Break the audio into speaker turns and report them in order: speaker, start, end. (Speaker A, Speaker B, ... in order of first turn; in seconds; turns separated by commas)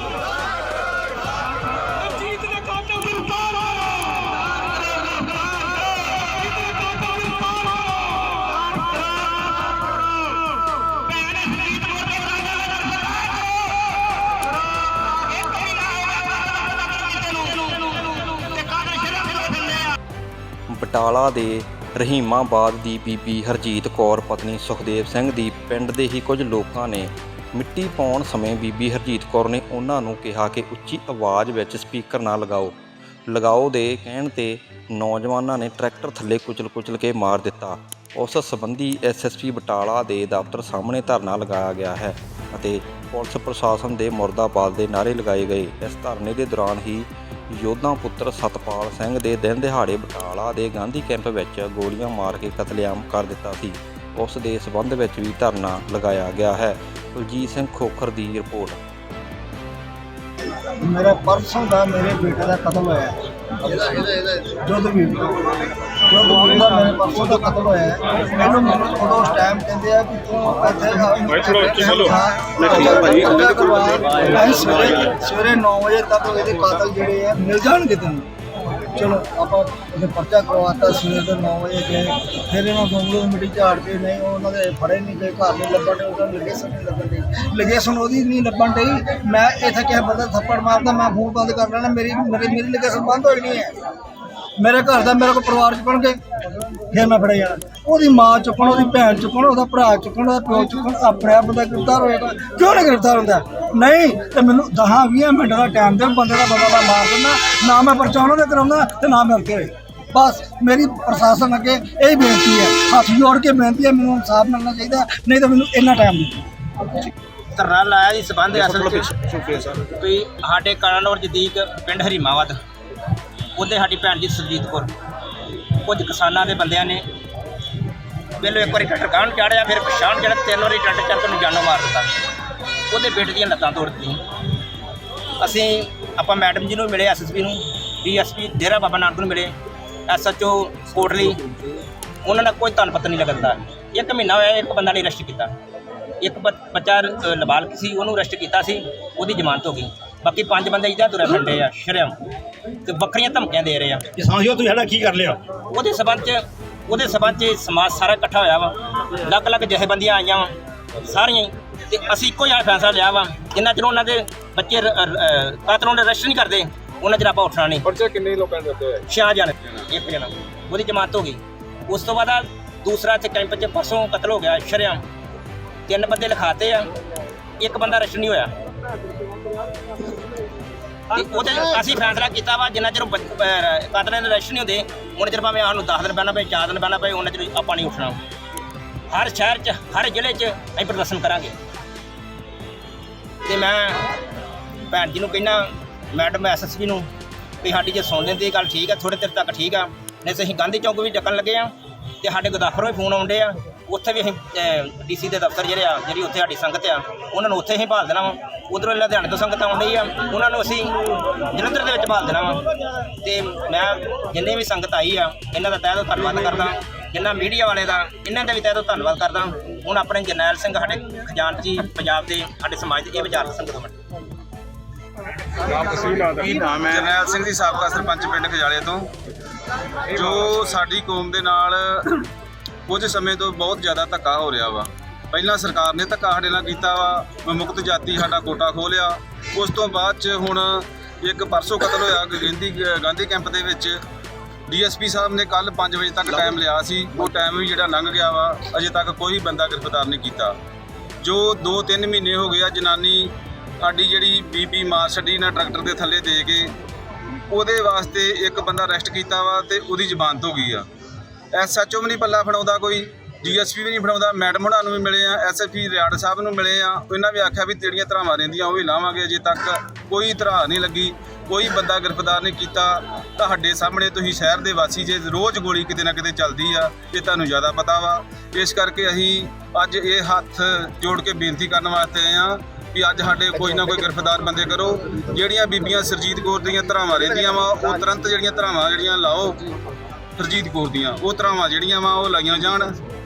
Speaker A: 20.7-58.8, Speaker B: 60.8-63.2, Speaker B: 63.7-65.3, Speaker B: 66.1-78.3, Speaker B: 78.8-93.7, Speaker B: 94.6-96.2, Speaker B: 96.9-116.5, Speaker C: 117.5-119.1, Speaker D: 119.2-119.7, Speaker C: 119.9-122.6, Speaker C: 123.5-124.9, Speaker C: 125.7-127.0, Speaker C: 128.4-132.1, Speaker C: 132.9-134.2, Speaker C: 135.4-139.5, Speaker C: 140.1-141.4, Speaker C: 142.2-145.5, Speaker C: 146.2-152.2, Speaker C: 152.8-154.1, Speaker D: 154.2-155.4, Speaker C: 155.7-167.9, Speaker D: 168.2-168.7, Speaker C: 169.1-175.0, Speaker C: 175.9-176.9, Speaker C: 177.6-178.5, Speaker C: 181.1-188.2, Speaker C: 189.1-191.5, Speaker C: 193.4-194.1, Speaker C: 194.9-197.1, Speaker C: 197.6-210.9, Speaker C: 211.5-223.9, Speaker E: 225.8-229.1, Speaker D: 226.3-226.8, Speaker E: 230.1-232.2, Speaker E: 232.9-244.0, Speaker E: 244.7-250.5, Speaker E: 251.2-256.7, Speaker E: 257.5-260.9, Speaker E: 261.5-289.6, Speaker E: 290.4-293.0